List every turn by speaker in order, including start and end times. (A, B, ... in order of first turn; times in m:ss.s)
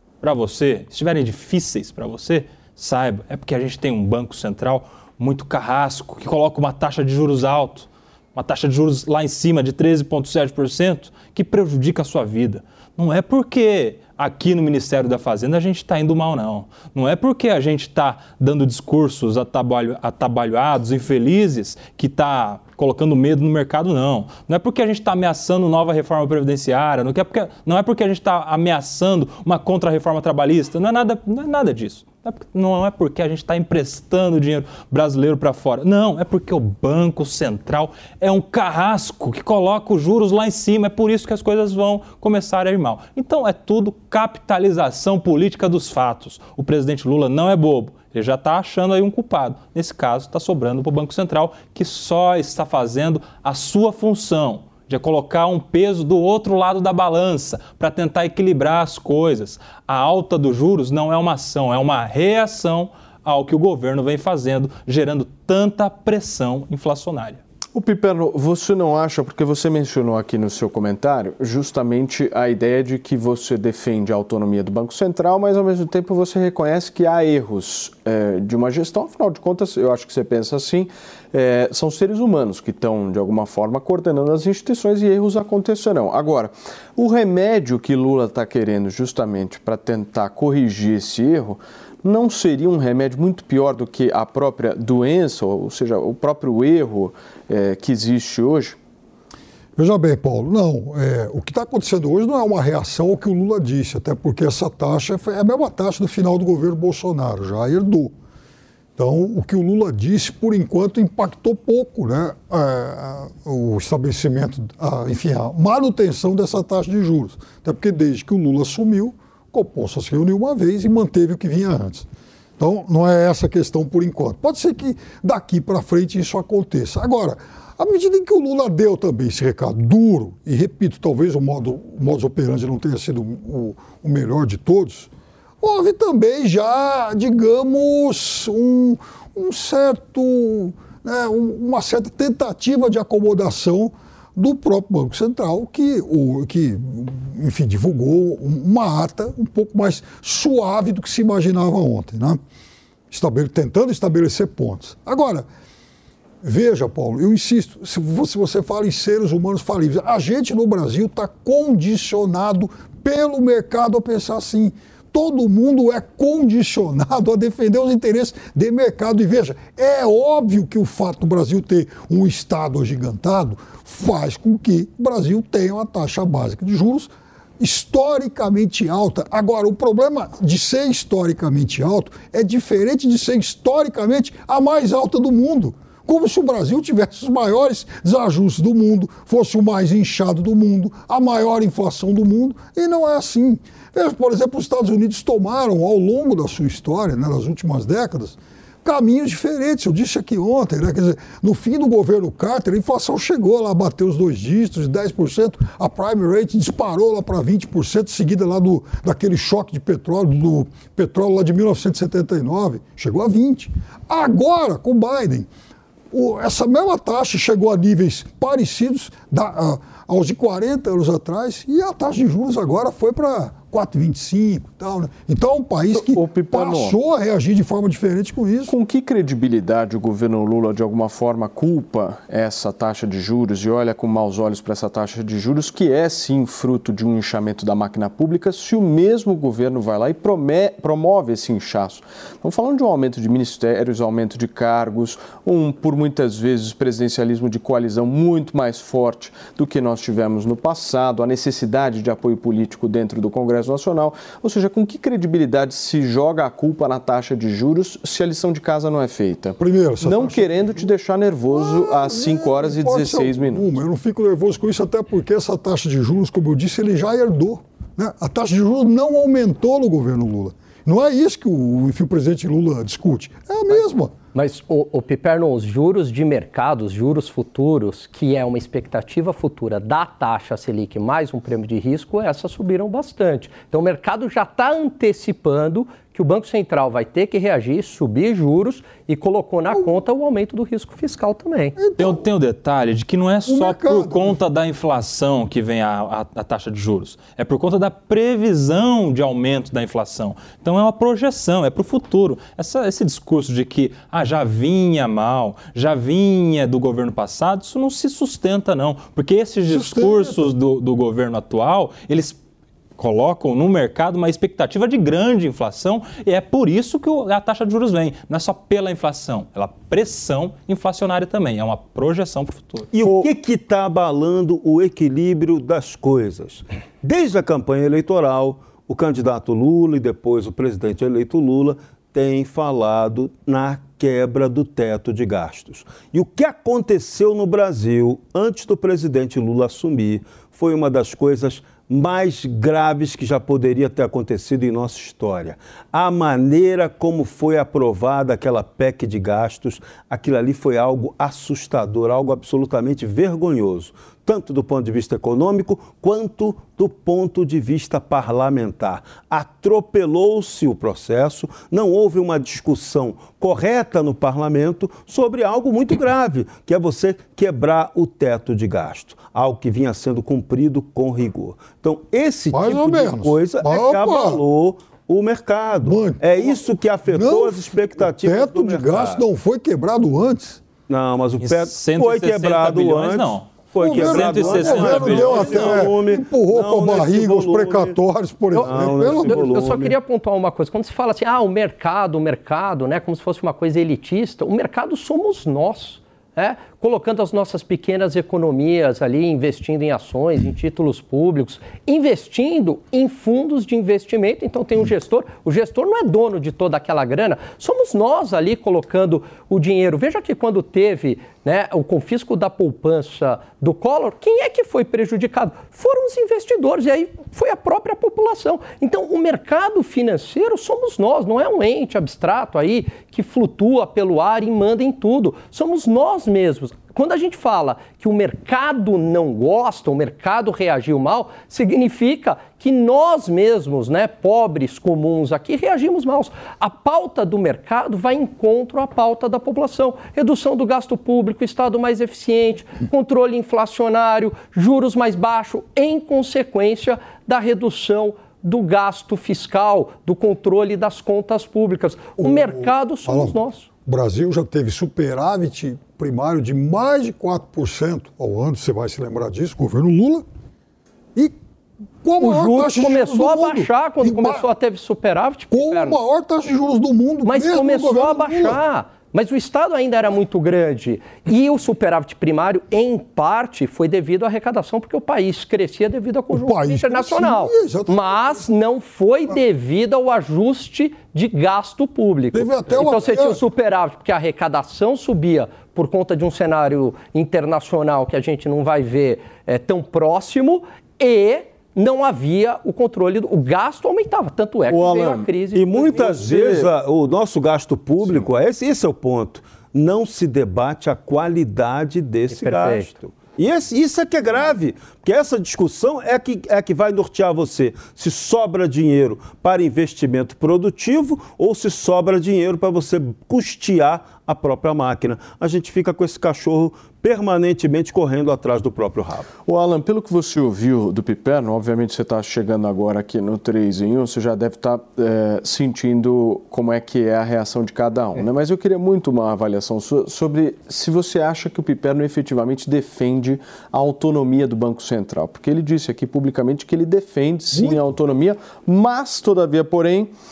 0:00.2-1:07.4 A
1:07.8-1:38.8 B
1:39.8-1:48.1 C
1:49.0-2:02.1 C
2:02.6-2:15.1 C
2:15.6-2:32.4 C
2:33.1-2:35.5 C
2:36.4-3:35.5 C
3:36.1-3:48.7 C
3:45.9-3:47.0 B
3:48.7-4:23.7 B
4:19.6-4:20.5 C
4:21.5-4:34.1 C
4:33.7-4:51.8 D
4:51.8-4:52.3 C
4:52.0-5:12.4 A
4:53.5-4:54.4 C
5:09.7-5:10.5 C
5:13.0-5:22.9 A
5:22.9-6:19.2 E
6:12.5-6:14.4 C
6:15.8-6:20.6 C
6:20.9-6:28.0 E
6:21.4-6:25.8 A
6:23.8-6:29.5 C
6:28.5-7:33.7 D
6:28.6-6:30.0 E
7:32.2-7:40.2 C
7:42.0-7:44.5 C
7:42.2-7:46.0 D
7:45.5-7:48.6 C
7:47.3-8:16.6 D
7:56.3-7:58.4 C
8:02.3-8:03.4 C
8:14.7-8:15.4 B
8:15.6-8:39.3 E
8:16.0-8:16.7 B
8:22.3-8:22.9 D
8:39.5-9:00.1 B